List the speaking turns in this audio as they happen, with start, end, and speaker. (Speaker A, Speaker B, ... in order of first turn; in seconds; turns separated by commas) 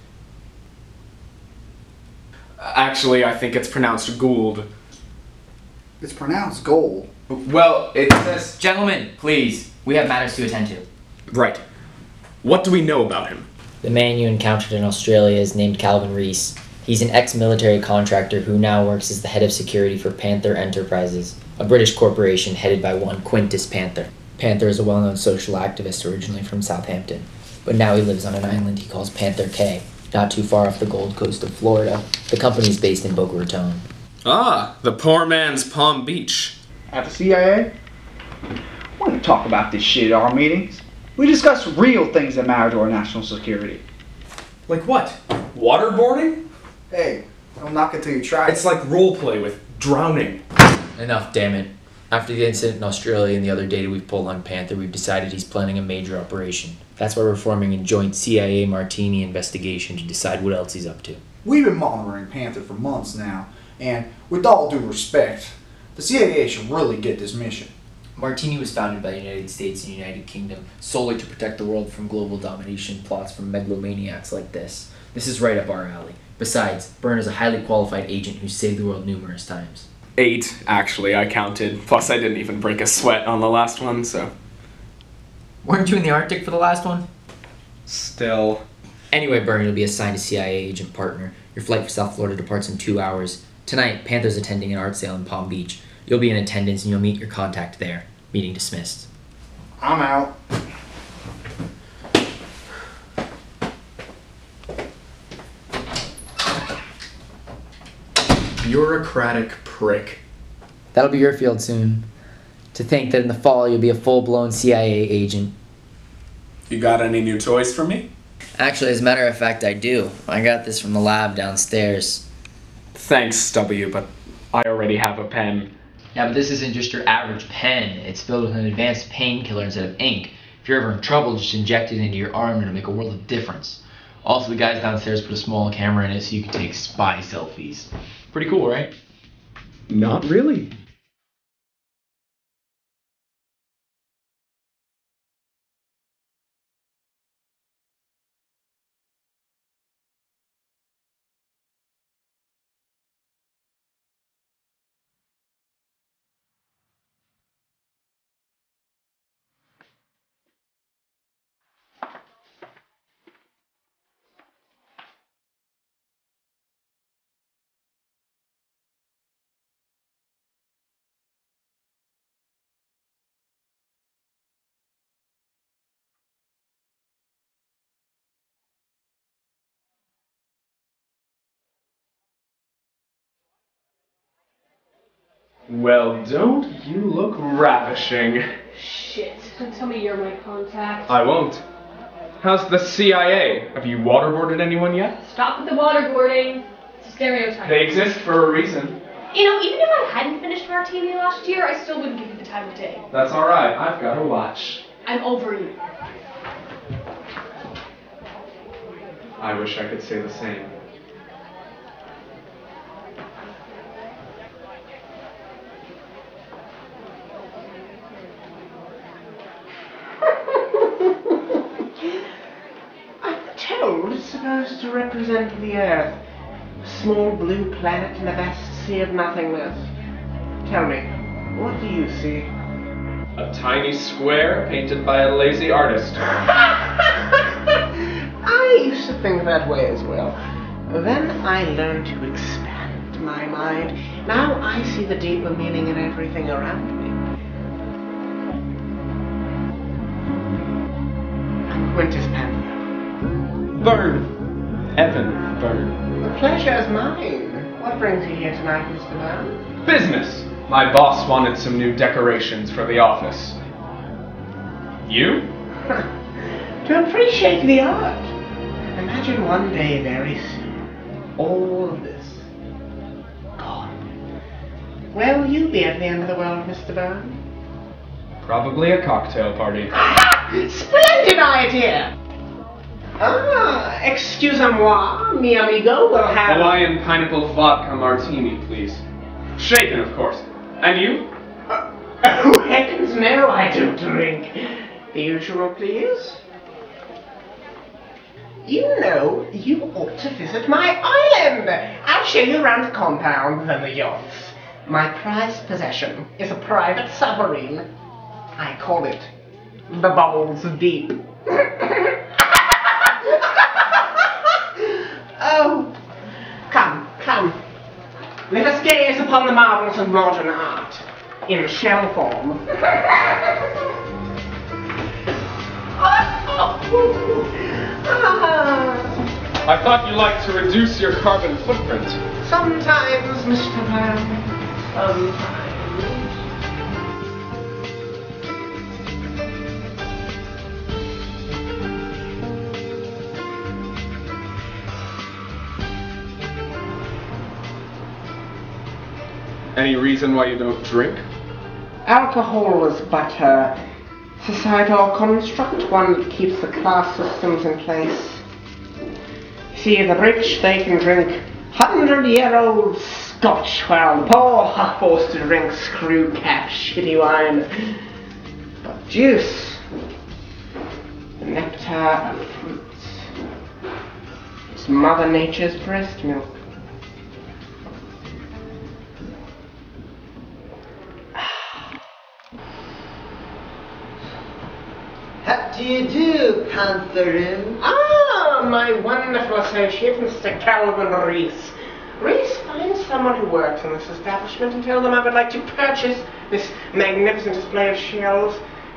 Speaker A: 2.6-4.7, Speaker B: 6.0-7.1, Speaker A: 7.3-8.5, Speaker C: 8.4-10.9, Speaker A: 11.3-11.6, Speaker A: 12.4-13.5, Speaker C: 13.8-33.8, Speaker A: 34.2-36.6, Speaker B: 36.9-37.7, Speaker B: 39.0-43.8, Speaker A: 44.7-46.4, Speaker B: 46.9-48.6, Speaker A: 48.5-50.4, Speaker C: 51.0-61.2, Speaker B: 61.4-67.7, Speaker C: 68.2-79.9, Speaker A: 80.2-84.3, Speaker C: 85.6-87.1, Speaker A: 87.8-88.6, Speaker C: 89.1-99.1, Speaker B: 99.8-100.3, Speaker A: 108.6-110.2, Speaker C: 110.9-112.1, Speaker C: 112.7-115.5, Speaker A: 116.7-118.1, Speaker C: 118.6-122.2, Speaker A: 122.9-125.7, Speaker C: 126.1-138.9, Speaker A: 139.9-140.7, Speaker A: 185.7-188.4, Speaker D: 188.7-191.1, Speaker A: 191.1-191.6, Speaker A: 192.4-195.2, Speaker D: 195.2-198.0, Speaker A: 197.6-199.0, Speaker D: 199.3-203.0, Speaker A: 203.1-204.8, Speaker D: 205.1-205.7, Speaker A: 209.4-210.7, Speaker E: 220.3-221.3, Speaker E: 223.2-226.2, Speaker E: 226.8-229.9, Speaker E: 230.6-232.5, Speaker A: 233.3-236.2, Speaker E: 236.5-237.8, Speaker E: 238.4-240.4, Speaker E: 240.9-247.2, Speaker E: 251.7-252.8, Speaker A: 253.8-254.3, Speaker A: 254.9-255.9, Speaker E: 256.2-259.6, Speaker A: 259.8-263.6, Speaker A: 265.0-265.5, Speaker E: 266.8-268.3, Speaker E: 268.9-270.8, Speaker E: 271.4-272.5, Speaker E: 273.6-273.9, Speaker E: 275.1-277.4, Speaker A: 278.4-279.9, Speaker E: 279.9-282.1, Speaker E: 283.2-286.8, Speaker A: 286.5-289.0, Speaker A: 289.6-291.3, Speaker E: 291.7-296.4, Speaker E: 298.6-307.9, Speaker E: 308.6-309.3, Speaker E: 309.9-315.9, Speaker E: 316.7-317.6, Speaker E: 318.5-323.4, Speaker E: 326.0-329.2, Speaker A: 329.6-332.2, Speaker E: 332.4-336.4, Speaker A: 349.7-351.2, Speaker E: 352.0-353.8, Speaker E: 354.4-358.4, Speaker E: 359.7-368.0, Speaker E: 368.8-369.8, Speaker E: 371.4-373.3, Speaker E: 374.7-376.5, Speaker F: 385.4-387.8, Speaker E: 387.8-398.6